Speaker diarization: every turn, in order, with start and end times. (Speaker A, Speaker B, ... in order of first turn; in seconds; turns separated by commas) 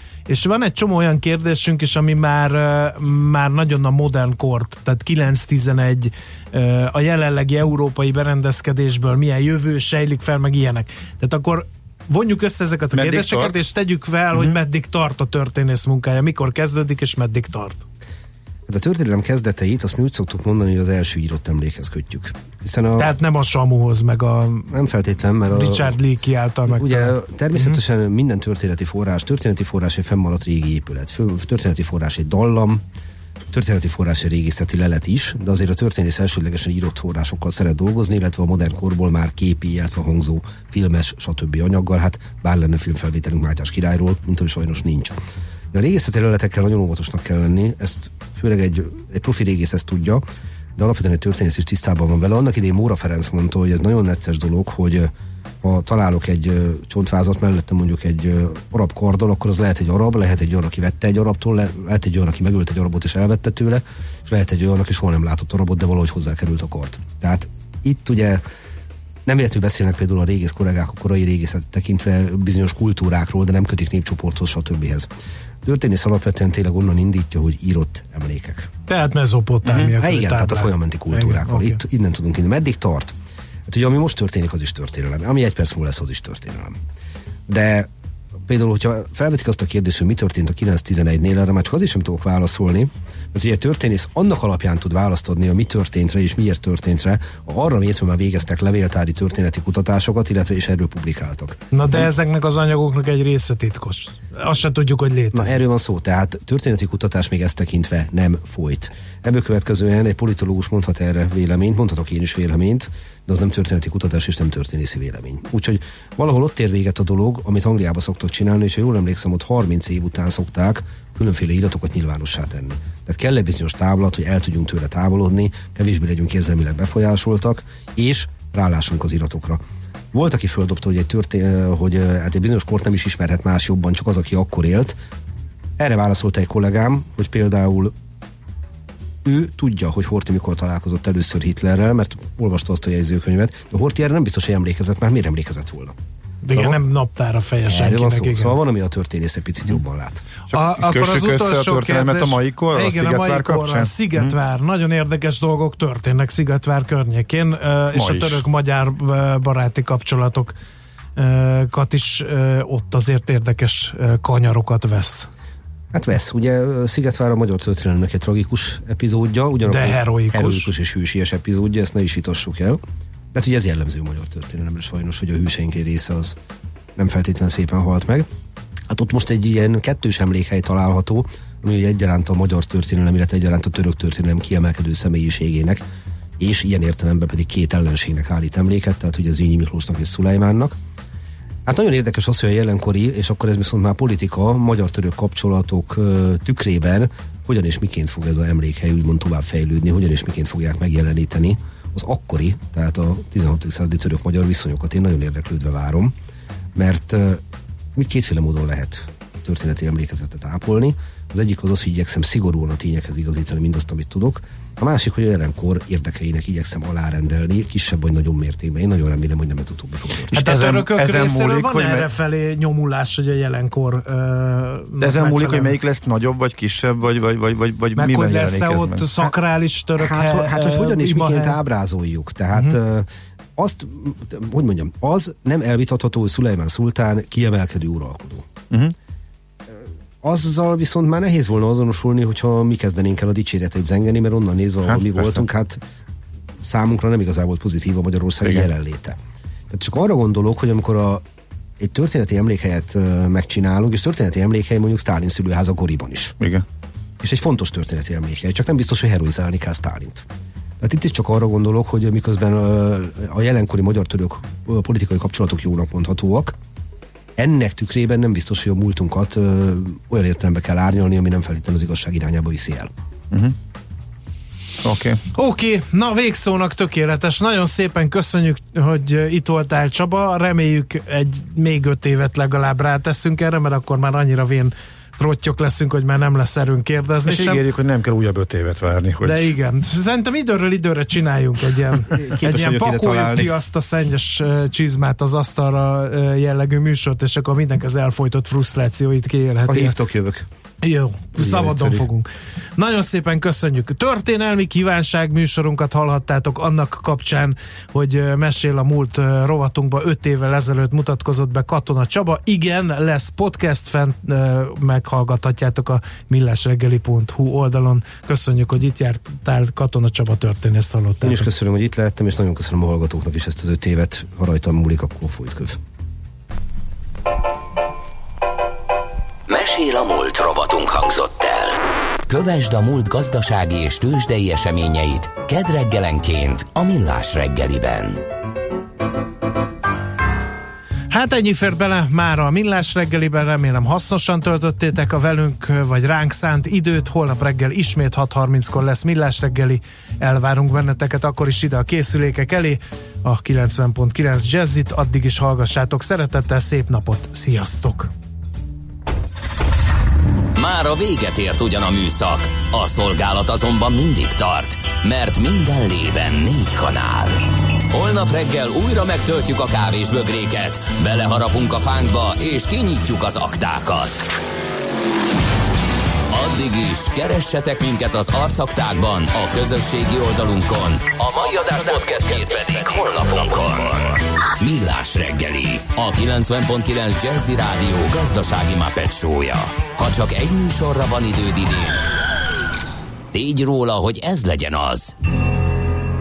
Speaker A: 0.3-17.8, Speaker B: 12.9-13.6, Speaker C: 18.7-23.1, Speaker A: 23.0-24.7, Speaker C: 24.7-26.0, Speaker A: 25.5-27.8, Speaker C: 26.7-32.8, Speaker C: 33.5-45.1, Speaker C: 45.7-50.2, Speaker C: 50.8-55.1, Speaker C: 55.6-68.4, Speaker C: 69.2-75.1, Speaker C: 75.6-78.7, Speaker A: 78.9-81.8, Speaker C: 79.9-83.1, Speaker C: 83.7-86.8, Speaker C: 87.5-87.9, Speaker C: 88.5-102.0, Speaker A: 101.7-105.6, Speaker C: 105.3-129.6, Speaker C: 130.1-135.0, Speaker C: 135.8-137.9, Speaker C: 139.2-145.9, Speaker A: 146.4-148.6, Speaker C: 147.7-150.2, Speaker B: 150.5-154.3, Speaker A: 150.5-160.5, Speaker B: 157.9-158.4, Speaker A: 161.2-165.3, Speaker C: 165.9-172.8, Speaker A: 169.7-170.7, Speaker C: 173.3-176.3, Speaker C: 176.9-178.3, Speaker C: 178.9-185.8, Speaker C: 186.4-190.8, Speaker C: 191.7-206.1, Speaker C: 206.7-207.4, Speaker C: 207.9-220.3, Speaker B: 220.3-222.1, Speaker A: 220.3-225.8, Speaker B: 225.0-229.1, Speaker A: 227.9-231.6, Speaker C: 230.0-238.5, Speaker C: 239.7-245.8, Speaker B: 244.9-245.4, Speaker C: 246.6-249.2, Speaker C: 249.7-251.2, Speaker C: 251.8-256.4, Speaker B: 256.4-256.6, Speaker C: 257.2-260.3, Speaker C: 260.8-266.5, Speaker C: 267.4-272.9, Speaker B: 274.8-275.2, Speaker A: 275.3-287.6, Speaker B: 287.2-289.5, Speaker A: 289.2-299.9, Speaker C: 292.1-293.5, Speaker C: 299.7-300.5, Speaker A: 300.8-321.5, Speaker C: 301.4-301.9, Speaker C: 321.2-325.8, Speaker D: 329.5-338.2, Speaker A: 341.1-358.1, Speaker D: 360.5-374.2, Speaker D: 376.3-392.0, Speaker D: 393.3-395.1